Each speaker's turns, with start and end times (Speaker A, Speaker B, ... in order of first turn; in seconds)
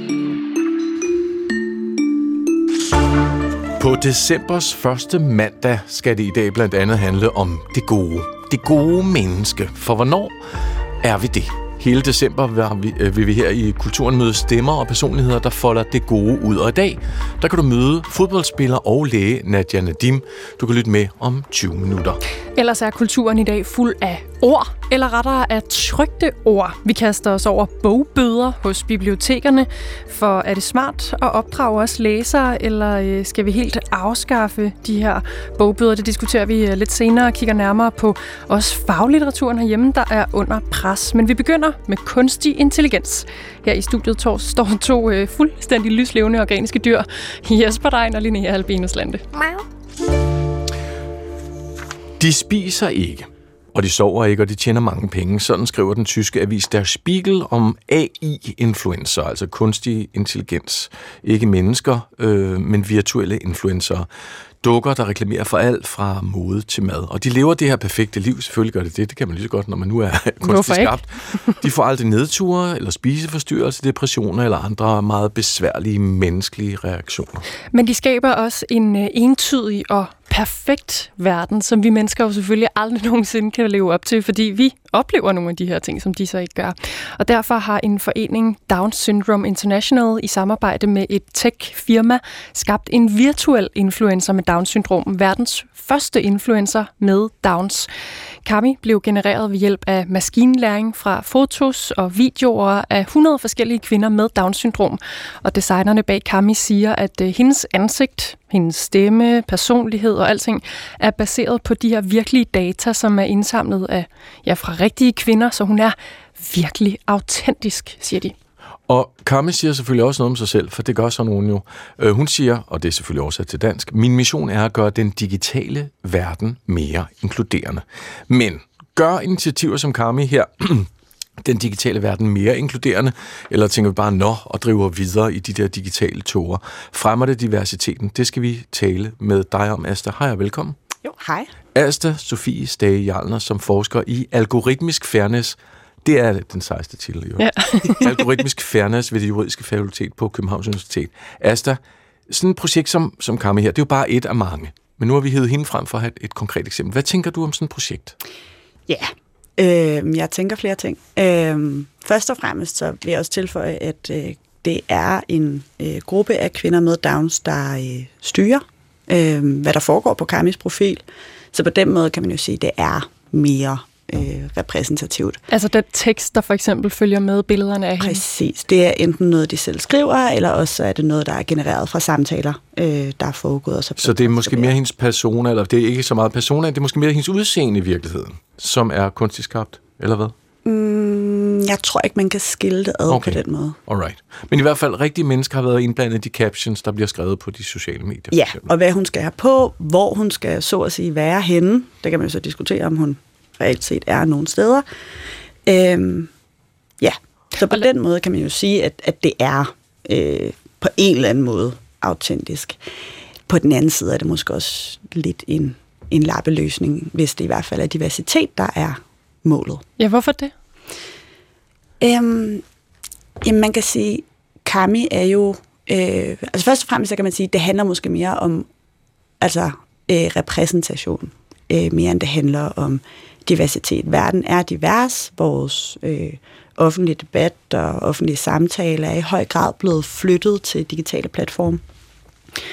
Speaker A: 3.8-10.3, 11.0-22.2, 52.2-64.1, 64.6-77.5, 118.9-130.9, 131.4-140.8, 141.7-158.2, 184.0-190.3, 193.1-198.7
Speaker B: 22.5-49.2, 70.4-71.6, 77.7-97.9, 98.4-118.3, 147.4-148.1, 175.5-178.2, 220.0-220.5
Speaker C: 141.0-141.5, 158.9-175.4, 178.0-184.7, 190.6-193.8, 198.3-204.8, 205.7-206.3, 207.0-212.8, 213.5-219.8, 222.0-222.6, 223.4-228.7, 229.4-241.8